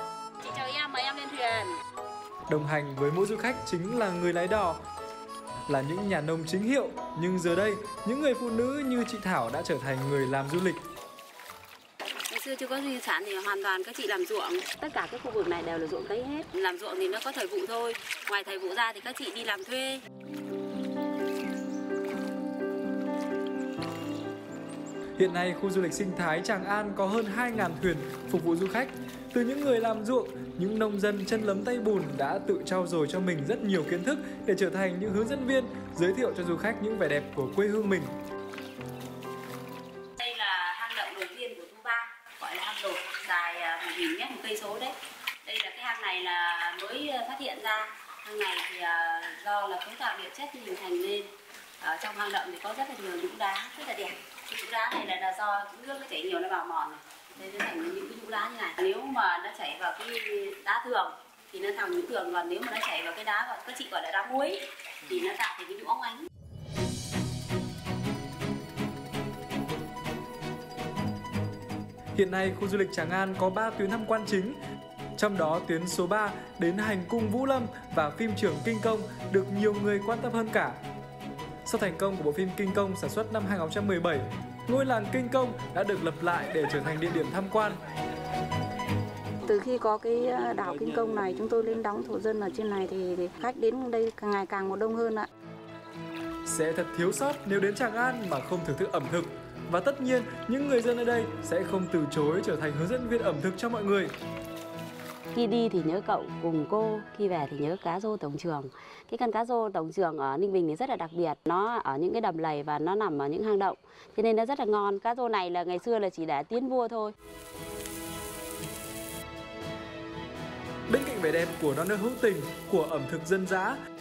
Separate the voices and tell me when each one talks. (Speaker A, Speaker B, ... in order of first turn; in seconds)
Speaker A: 0.4-1.8, 12.3-20.0, 40.2-66.3, 105.3-117.2
Speaker B: 2.5-4.8, 5.7-10.8, 25.2-38.1, 72.1-74.6, 75.2-80.8, 81.7-87.8, 96.5-104.1, 120.9-123.8
Speaker C: 89.4-95.3